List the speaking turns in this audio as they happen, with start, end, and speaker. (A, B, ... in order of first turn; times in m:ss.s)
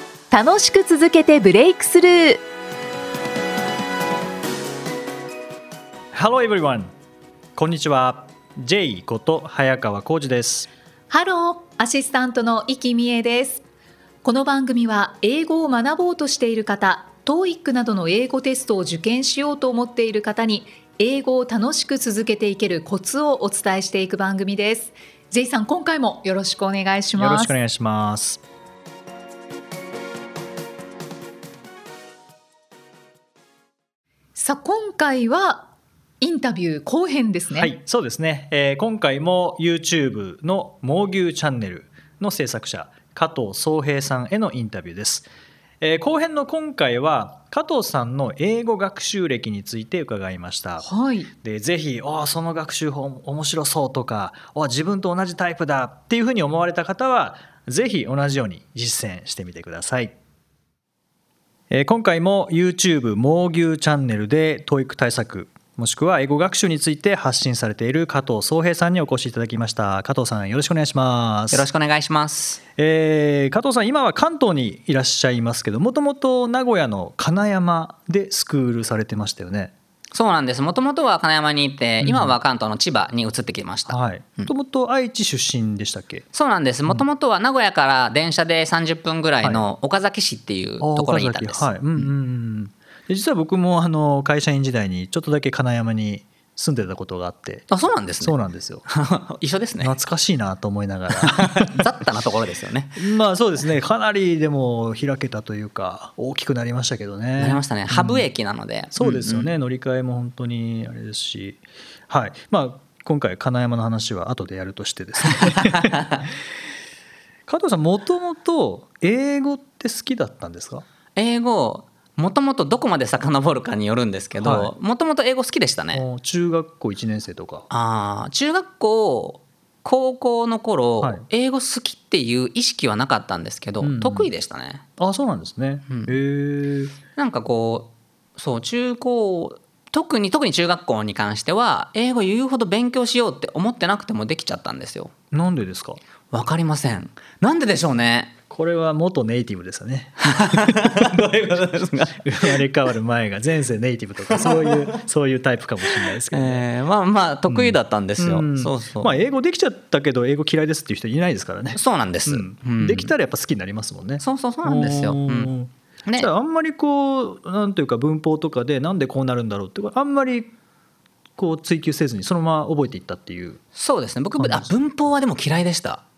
0:00.3-0:02.4 A
0:06.1-0:06.9 B
0:07.6-0:10.7 B
0:11.1-0:13.6 A
0:14.2-0:27.6 A
0:27.2-0:28.4 B
0:34.4-0:35.7 A
0:36.2-0:37.7 A
0:37.5-0:45.3 B
0:45.8-0:50.9 B
0:50.8-0:51.3 A
0:51.4-1:00.2 B
1:01.7-1:11.7 B
1:11.5-1:12.6 C
1:12.8-1:19.7 B
1:20.1-1:24.5 C
1:22.0-1:22.4 B
1:23.9-1:26.2 B
1:26.3-1:32.1 C
1:30.8-1:38.9 B
1:37.7-1:38.4 C
1:38.9-1:39.9 C
1:39.8-1:41.8 B
1:41.1-1:43.0 C
1:43.0-1:48.2 B
1:47.4-1:49.5 C
1:48.9-1:56.3 B
1:55.3-1:56.3 C
1:57.5-2:00.8 B
2:01.2-2:06.0 C
2:04.4-2:04.7 B
2:05.9-2:07.7 B
2:07.7-2:14.8 C
2:11.0-2:11.3 B
2:13.8-2:14.3 B
2:15.0-2:16.9 B
2:15.9-2:16.2 C
2:17.2-2:25.1 C
2:25.3-2:26.0 B
2:26.3-2:28.4 C
2:28.5-2:31.3 B
2:30.2-2:32.6 C
2:32.2-2:36.7 B
2:34.3-2:35.0 C
2:35.9-2:39.1 C
2:37.5-2:50.5 B
2:41.8-2:43.1 C
2:44.2-2:45.5 C
2:51.4-2:53.6 B
2:53.8-2:56.0 C
2:54.4-2:54.7 B